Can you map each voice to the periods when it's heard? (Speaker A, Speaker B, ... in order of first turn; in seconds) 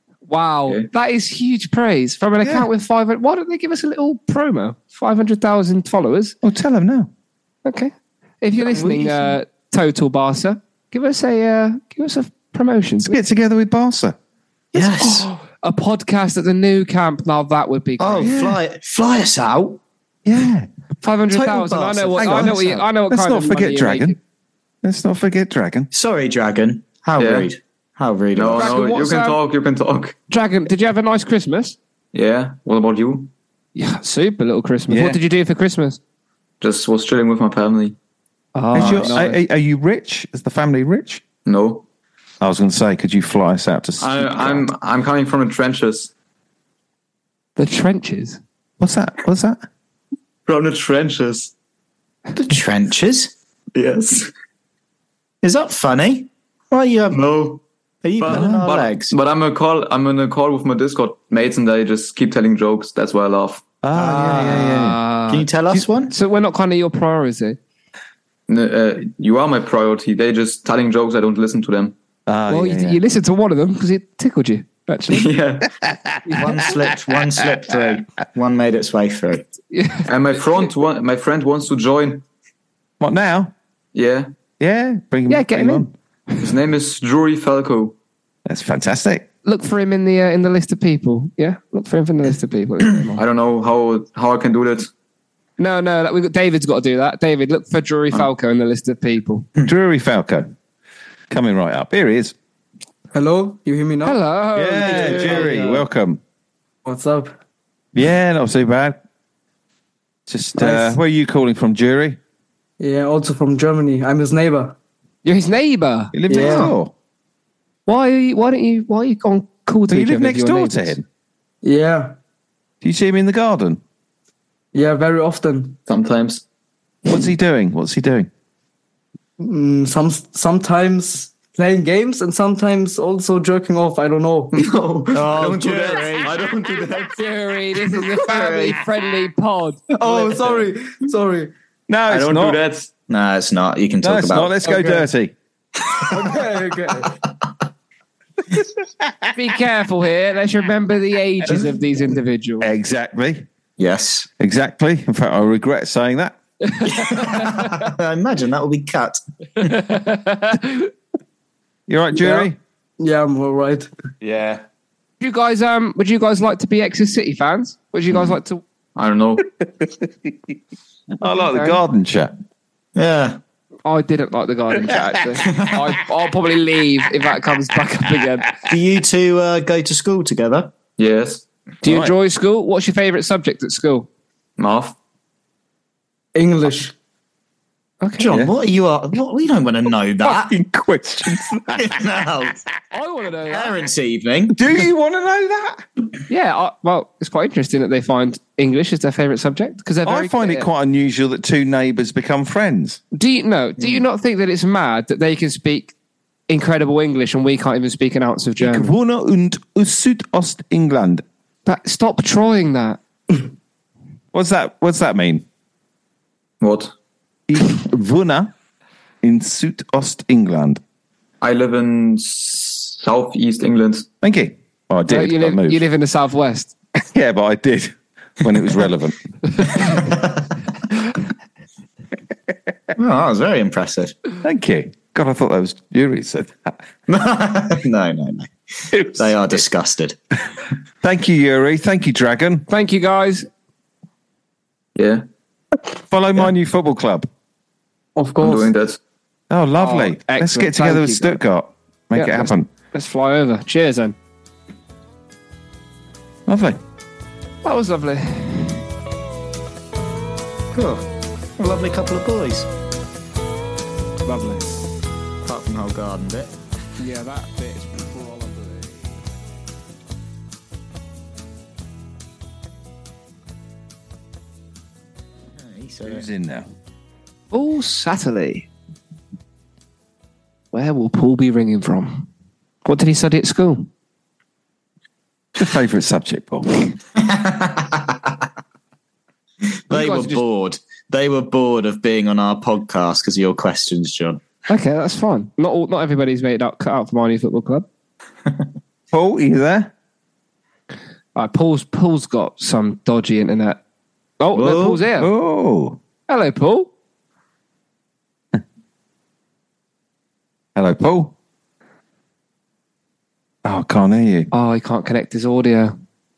Speaker A: 0.3-6.3, 7.7-13.2, 14.8-18.4, 21.0-24.2, 28.6-29.4, 30.3-31.8, 33.8-36.0, 38.5-39.4, 47.6-48.4, 64.3-65.5, 66.1-67.6, 72.5-75.3, 79.7-80.1, 85.3-85.9, 89.5-93.2, 95.6-99.5, 104.0-105.7, 115.2-116.7, 117.9-121.0, 137.2-139.8, 149.3-152.7, 156.7-157.6, 159.7-160.9, 165.2-168.6, 171.3-171.8, 173.8-178.5, 181.8-184.1, 188.0-188.3, 192.9-193.8, 196.3-200.7, 203.1-205.9, 206.5-208.9, 211.7-213.0, 225.1-226.7, 242.7-243.5, 249.8-251.3, 252.1-254.2, 257.6-258.8, 264.3-264.6, 267.0-269.2, 277.5-278.7, 280.7-282.3, 282.9-283.9, 289.9-290.4, 294.7-297.9, 301.4-303.8, 304.4-305.3, 306.3-306.9, 314.5-315.9
Speaker B: 2.4-2.7, 6.4-7.1, 13.1-14.2, 18.2-18.6, 20.2-20.7, 22.2-24.2, 24.8-25.9, 34.9-35.2, 38.7-41.2, 42.4-44.7, 48.8-49.6, 58.3-58.7, 63.8-65.0, 72.3-73.0, 83.0-83.5, 84.6-85.9, 88.5-89.3, 99.7-100.5, 101.3-102.3, 104.5-106.2, 108.0-109.0, 110.3-112.2, 116.1-116.9, 119.9-121.0, 122.8-123.8, 127.1-128.3, 141.9-142.6, 144.0-145.3, 152.6-153.5, 154.4-156.4, 161.9-162.6, 169.7-170.3, 171.2-172.3, 181.8-182.2, 190.2-192.0, 194.5-195.9, 200.0-203.0, 208.6-211.2, 214.3-215.4, 217.5-218.5, 219.2-220.8, 224.2-225.8, 227.1-229.8, 234.4-236.8, 238.9-239.4, 241.0-242.7, 246.1-247.3, 249.5-252.7, 256.5-256.8, 276.0-276.7, 285.6-286.9, 299.1-299.9, 305.2-306.0, 310.8-311.3, 313.6-314.5
Speaker C: 8.8-9.3, 14.7-15.3, 18.0-19.8, 21.3-22.6, 25.9-28.8, 38.8-39.2, 52.4-53.3, 55.4-59.1, 64.0-64.6, 65.3-66.1, 76.3-79.5, 135.1-136.4, 138.1-138.8, 143.1-145.0, 153.8-154.3, 156.9-159.8, 173.0-173.4, 178.7-180.7, 188.2-190.6, 191.8-192.6, 193.5-194.6, 229.8-230.4, 233.0-234.2, 237.1-240.2, 260.7-261.1, 261.6-262.7, 265.4-266.5, 275.6-276.2, 287.2-288.2, 289.9-294.4, 304.6-305.0
Speaker D: 27.2-27.5, 28.4-30.2, 32.1-33.3, 36.6-38.0, 41.5-41.9, 44.0-46.1, 50.5-51.5, 53.8-54.2, 57.1-57.5, 58.2-63.6, 68.5-72.0, 75.1-75.7, 80.1-82.2, 83.9-84.3, 86.4-88.0, 93.2-94.9, 125.9-126.4, 134.5-137.2, 140.1-140.6, 142.1-142.9, 164.2-164.6, 169.0-169.4, 181.0-181.4, 184.6-185.0, 216.6-216.9, 221.4-224.1, 245.0-245.2, 248.4-249.0
Speaker E: 103.1-104.2, 104.8-105.8, 106.8-107.4, 110.6-111.0, 112.8-114.8, 116.3-116.7, 121.6-122.2, 124.7-125.8, 129.4-134.7, 139.9-141.5, 146.1-147.1, 162.2-163.9, 186.3-186.9, 248.2-248.7